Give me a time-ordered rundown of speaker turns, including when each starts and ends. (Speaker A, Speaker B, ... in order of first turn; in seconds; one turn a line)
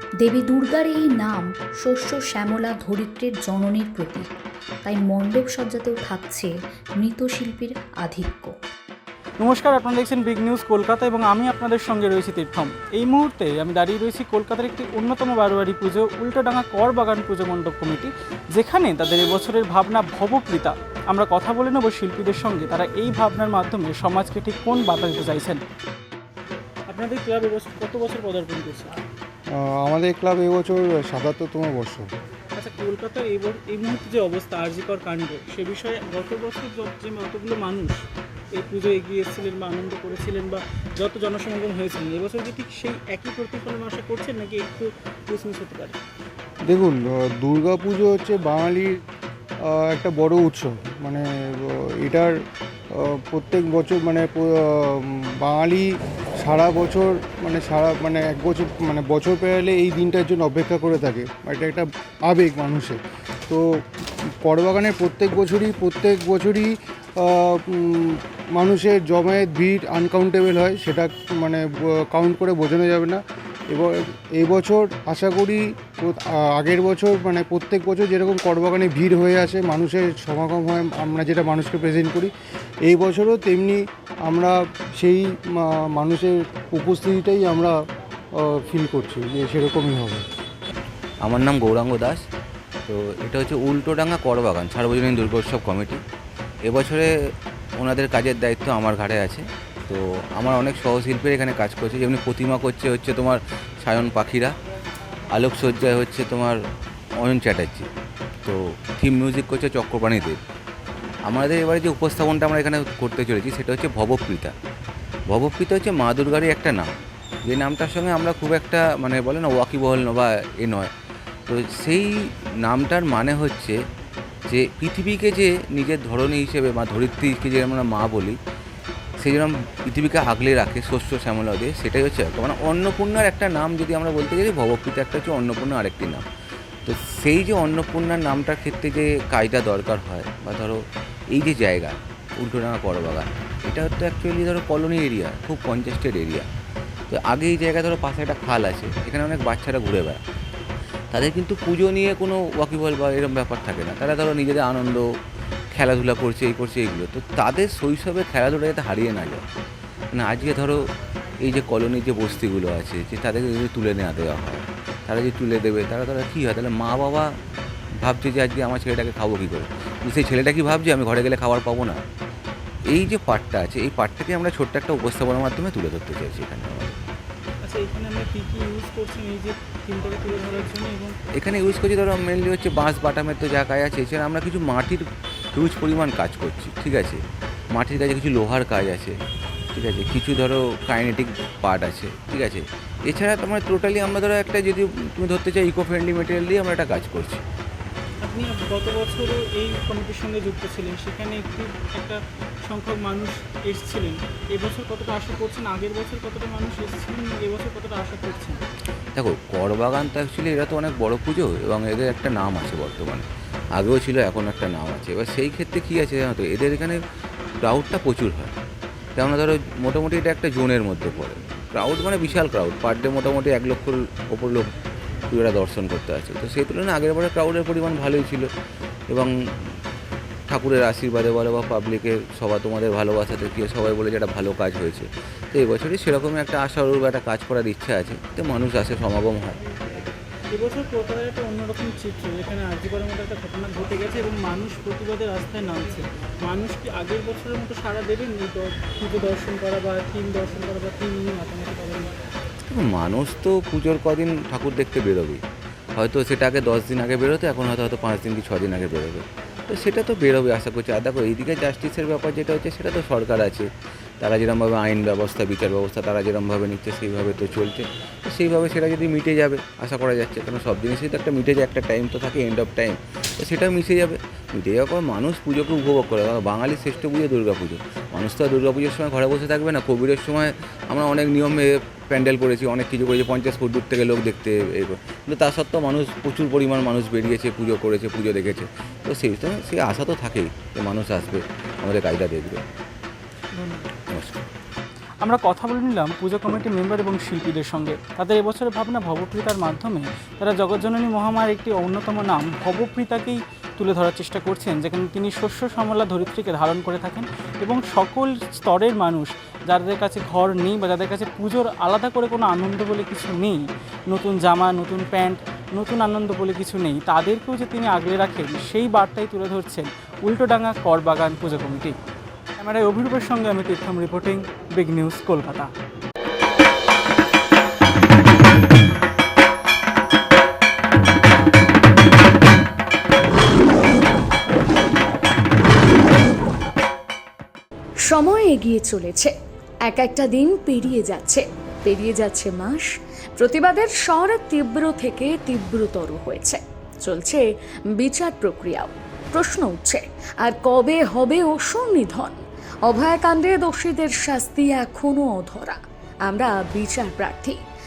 Speaker A: 0.2-4.3
Speaker A: 4.8-8.6
Speaker B: 9.4-25.6
Speaker B: 26.9-28.9
Speaker C: 29.5-32.1
Speaker B: 32.6-46.0
Speaker C: 46.7-49.0
Speaker C: 49.6-52.3
Speaker C: 52.9-63.7
Speaker C: 64.4-82.3
Speaker C: 82.8-87.7
Speaker C: 88.4-90.2
Speaker D: 91.2-92.2
Speaker D: 92.9-96.0
Speaker D: 96.6-97.1
Speaker D: 97.8-104.5
Speaker D: 105.3-106.6
Speaker D: 107.2-107.9
Speaker D: 108.4-110.4
Speaker D: 111.2-114.5
Speaker D: 115.3-116.9
Speaker D: 117.5-120.9
Speaker D: 121.5-122.1
Speaker D: 122.6-123.8
Speaker D: 124.5-128.4
Speaker D: 129.2-136.2
Speaker D: 136.8-140.8
Speaker D: 141.3-146.5
Speaker D: 147.1-150.2
Speaker D: 151.1-155.1
Speaker D: 155.7-159.4
Speaker D: 160.1-160.8
Speaker D: 161.4-167.3
Speaker D: 168.0-172.0
Speaker D: 172.9-177.0
Speaker B: 177.6-181.2
Speaker D: 181.3-185.0
Speaker D: 185.5-189.2
Speaker D: 189.7-197.4
Speaker B: 198.2-208.6
Speaker D: 209.1-217.0
Speaker D: 217.6-218.5
Speaker D: 219.2-224.7
Speaker D: 225.3-228.5
Speaker D: 229.1-229.8
Speaker D: 230.5-239.7
Speaker B: 240.5-252.2
Speaker D: 252.7-255.4
Speaker D: 256.0-263.7
Speaker D: 264.2-292.6
Speaker B: 293.6-293.9
Speaker D: 294.1-294.4
Speaker B: 295.2-321.9
Speaker B: 322.6-325.7
Speaker E: 338.1-339.3
Speaker E: 339.9-347.4
Speaker E: 348.0-357.6